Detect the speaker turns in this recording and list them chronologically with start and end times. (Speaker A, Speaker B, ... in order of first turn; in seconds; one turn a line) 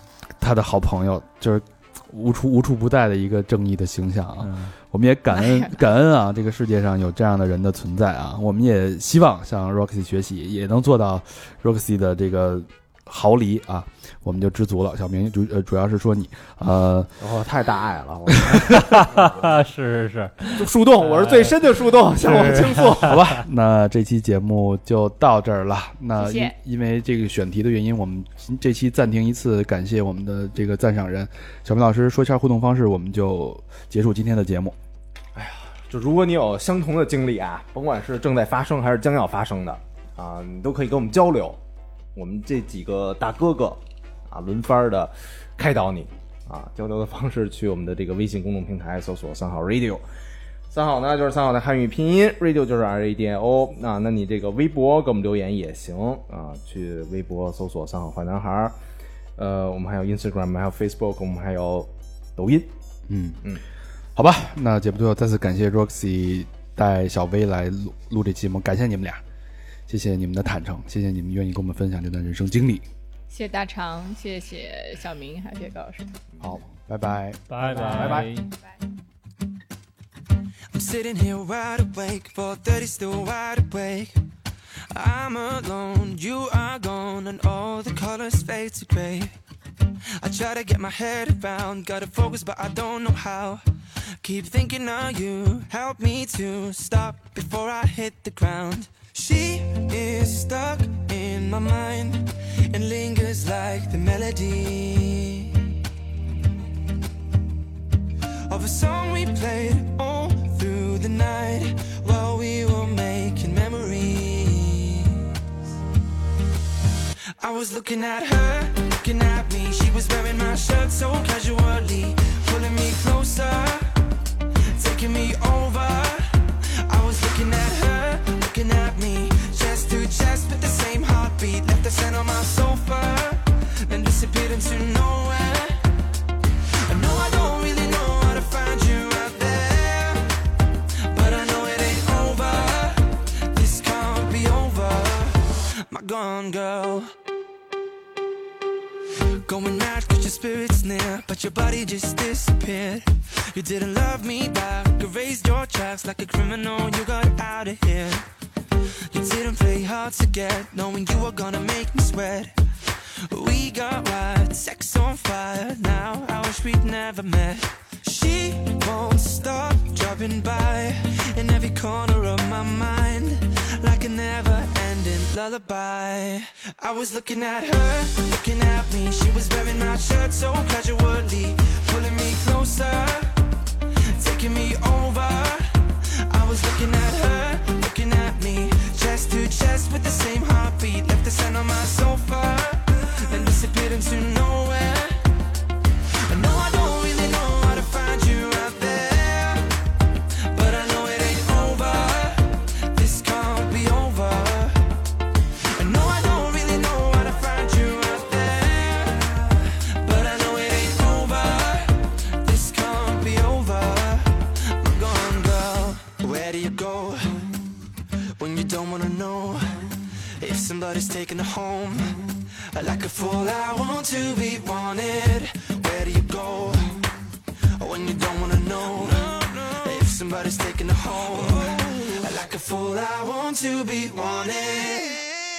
Speaker A: 0.4-17.1
Speaker B: 4.4-4.7
Speaker C: 5.3-5.7
Speaker D: 17.2-19.5
Speaker B: 18.7-23.4
Speaker D: 20.5-23.2
Speaker A: 22.4-34.8
Speaker C: 26.2-26.5
Speaker D: 35.3-41.6
Speaker D: 42.1-50.0
Speaker D: 50.7-58.8
Speaker D: 59.4-62.7
Speaker A: 63.1-63.4
Speaker A: 64.1-69.2
Speaker A: 69.9-72.8
Speaker C: 73.3-76.1
Speaker A: 76.4-77.4
Speaker B: 77.5-78.5
Speaker D: 77.6-78.3
Speaker C: 77.7-78.4
Speaker E: 80.7-84.2
Speaker E: 84.9-89.3
Speaker E: 90.2-93.6
Speaker E: 94.2-105.7
Speaker E: 108.5-115.4
Speaker E: 117.4-124.0
Speaker E: 124.7-135.8
Speaker E: 136.8-140.3
Speaker E: 141.1-147.1
Speaker E: 149.4-158.2
Speaker E: 159.1-162.5
Speaker E: 163.3-183.3
Speaker E: 184.1-195.3
Speaker E: 196.2-199.7
Speaker E: 200.4-204.9
Speaker E: 205.7-217.5
Speaker E: 218.3-227.0
Speaker E: 227.8-235.3